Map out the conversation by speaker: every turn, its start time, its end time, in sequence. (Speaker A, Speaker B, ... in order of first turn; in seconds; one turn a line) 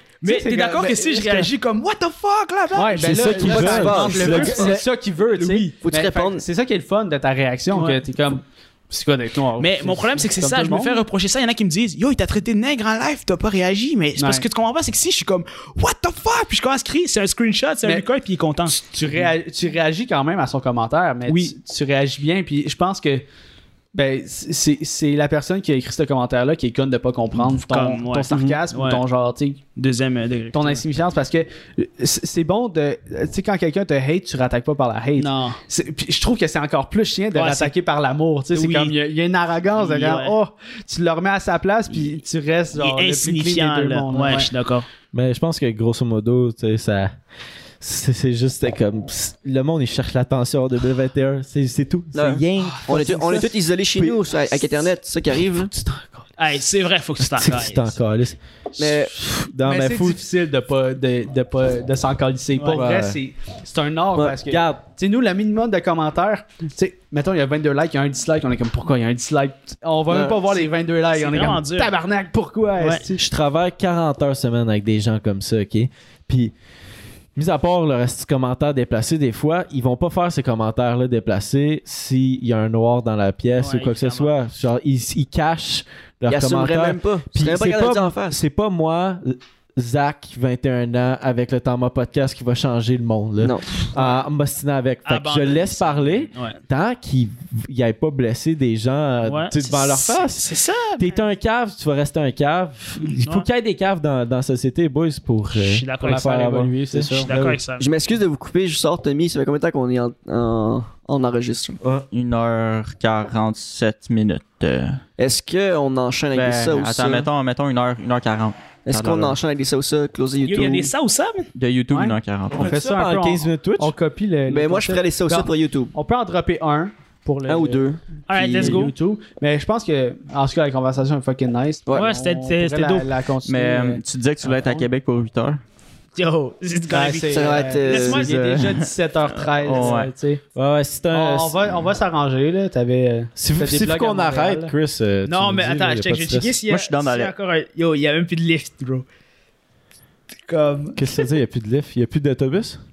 Speaker A: 0.2-4.8
Speaker B: 0.2-1.5
Speaker B: 2.7-11.0
Speaker C: 3.0-4.8
Speaker D: 3.3-4.8
Speaker A: 5.3-5.7
Speaker D: 5.8-6.4
Speaker A: 7.7-8.0
Speaker A: 9.6-19.3
Speaker B: 14.2-14.4
Speaker B: 18.8-23.2
Speaker A: 21.2-21.5
Speaker B: 23.9-29.6
Speaker A: 27.4-29.0
Speaker A: 29.8-30.8
Speaker B: 30.5-44.5
Speaker A: 35.2-35.6
Speaker A: 37.3-37.7
Speaker A: 38.5-38.9
Speaker A: 39.7-40.4
Speaker A: 42.7-44.9
Speaker C: 45.1-47.1
Speaker C: 47.8-54.1
Speaker D: 52.1-55.7
Speaker A: 56.4-57.9
Speaker C: 57.2-60.2
Speaker D: 58.8-59.1
Speaker B: 59.6-73.2
Speaker A: 62.5-62.8
Speaker C: 62.7-63.2
Speaker C: 64.2-64.8
Speaker D: 70.1-70.6
Speaker A: 71.1-71.9
Speaker A: 72.8-73.1
Speaker C: 73.2-76.5
Speaker C: 77.3-107.6
Speaker A: 83.6-84.3
Speaker D: 86.3-88.4
Speaker D: 93.4-93.7
Speaker A: 95.0-96.6
Speaker A: 99.2-101.1
Speaker A: 103.0-103.5
Speaker A: 105.5-106.3
Speaker B: 106.0-107.3
Speaker A: 107.1-107.8
Speaker D: 107.8-111.8
Speaker E: 112.1-115.0
Speaker D: 115.2-117.3
Speaker E: 116.3-119.3
Speaker D: 118.9-120.9
Speaker A: 120.4-121.5
Speaker E: 121.5-122.7
Speaker B: 121.9-134.8
Speaker C: 122.5-123.9
Speaker D: 124.5-125.9
Speaker D: 127.5-128.8
Speaker A: 128.3-128.9
Speaker A: 131.9-133.1
Speaker E: 133.4-135.6
Speaker A: 136.1-138.6
Speaker B: 136.9-140.4
Speaker D: 137.3-138.3
Speaker E: 138.2-140.1
Speaker A: 139.7-140.1
Speaker C: 140.6-141.7
Speaker B: 141.1-144.7
Speaker C: 143.3-146.5
Speaker A: 145.2-149.0
Speaker E: 146.7-147.3
Speaker A: 150.4-151.3
Speaker C: 150.9-152.8